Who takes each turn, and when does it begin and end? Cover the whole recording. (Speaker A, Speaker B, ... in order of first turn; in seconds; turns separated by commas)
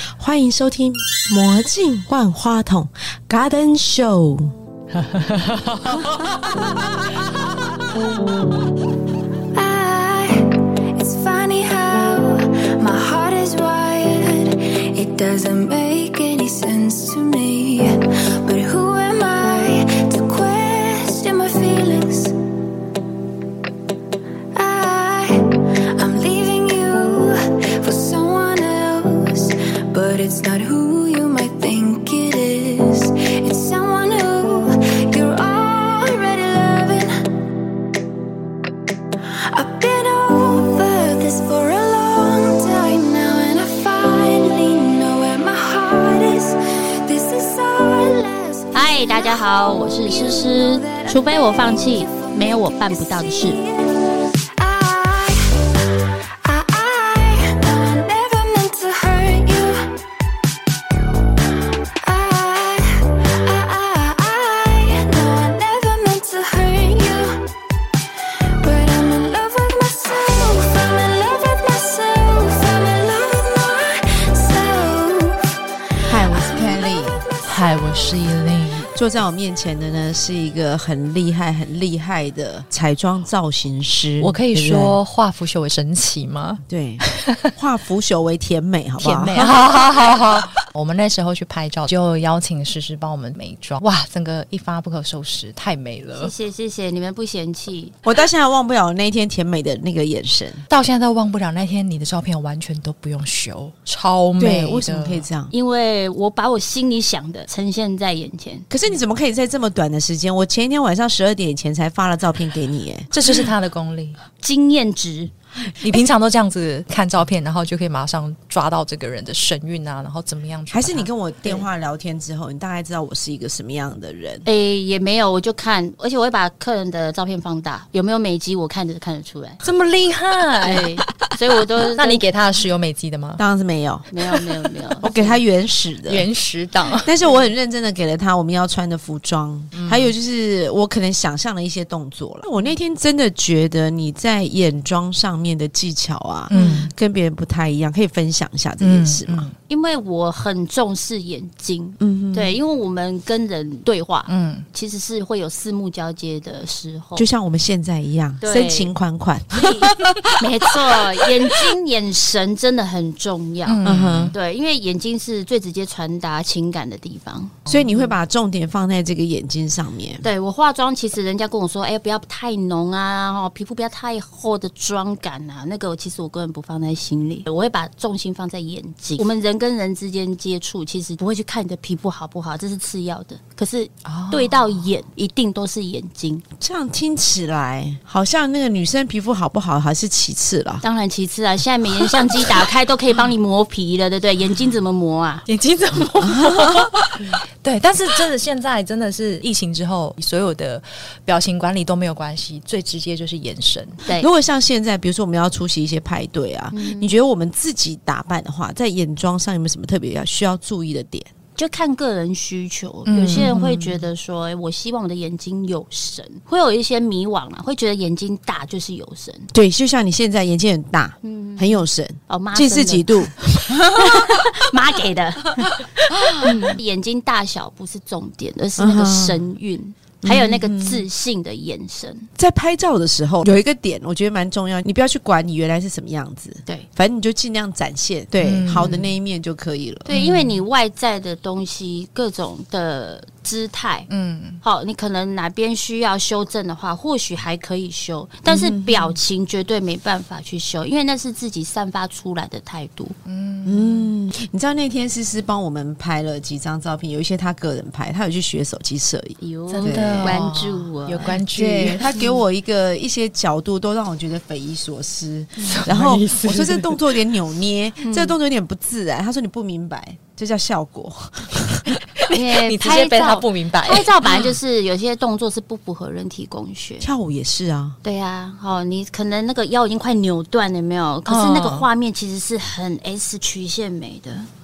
Speaker A: 0.2-4.5, Speaker B: 4.9-6.0, Speaker C: 9.5-22.4, Speaker C: 24.5-37.2, Speaker C: 39.5-55.7, Speaker D: 48.7-53.6, Speaker C: 56.4-60.0, Speaker C: 62.0-67.4, Speaker C: 68.6-75.4, Speaker A: 76.0-77.2, Speaker C: 76.1-76.8, Speaker B: 77.4-78.9, Speaker A: 78.9-85.0, Speaker B: 84.2-87.5, Speaker A: 86.7-89.6, Speaker B: 89.0-96.3, Speaker D: 96.2-97.9, Speaker A: 98.0-100.6, Speaker B: 100.7-105.2, Speaker A: 104.4-105.5, Speaker D: 105.5-108.7, Speaker A: 108.7-113.1, Speaker B: 113.1-114.2, Speaker D: 114.4-115.3, Speaker B: 115.8-121.1, Speaker A: 120.7-124.5, Speaker D: 124.4-129.6, Speaker B: 129.6-130.9, Speaker D: 130.6-132.2, Speaker B: 131.9-133.4, Speaker A: 133.4-134.2, Speaker D: 134.1-135.4, Speaker A: 135.0-136.3, Speaker B: 136.1-137.1, Speaker A: 137.0-149.5, Speaker B: 139.7-140.1, Speaker B: 146.5-146.9, Speaker D: 146.5-146.8, Speaker B: 148.8-149.5, Speaker D: 149.7-157.2, Speaker A: 152.0-152.6, Speaker B: 154.3-154.7, Speaker A: 157.2-160.7, Speaker D: 158.4-158.9, Speaker D: 159.5-168.1, Speaker B: 163.7-164.3, Speaker A: 163.8-164.3, Speaker A: 167.7-170.3, Speaker D: 170.2-186.4, Speaker B: 184.0-184.8, Speaker A: 186.6-190.8, Speaker D: 190.8-195.4, Speaker B: 195.5-197.1, Speaker A: 196.3-197.2, Speaker B: 197.6-204.0, Speaker A: 204.1-211.3, Speaker D: 206.7-207.1, Speaker D: 211.6-219.5, Speaker B: 213.1-214.0, Speaker A: 219.5-224.5, Speaker D: 221.2-225.9, Speaker A: 226.1-226.8, Speaker D: 226.4-232.3, Speaker A: 228.8-229.4, Speaker A: 230.2-231.1, Speaker A: 232.4-240.1, Speaker B: 238.4-239.1, Speaker D: 240.1-244.1, Speaker B: 240.1-240.6, Speaker B: 244.1-244.6, Speaker D: 244.6-253.2, Speaker A: 248.5-249.2, Speaker B: 253.2-254.1, Speaker A: 253.6-260.4, Speaker D: 259.4-261.4, Speaker B: 259.7-262.1, Speaker A: 261.2-271.9, Speaker D: 262.1-262.4, Speaker B: 265.6-266.9, Speaker D: 268.0-268.3, Speaker B: 271.9-274.4, Speaker D: 272.3-277.1, Speaker A: 277.0-278.0, Speaker D: 278.0-284.5, Speaker B: 281.3-281.9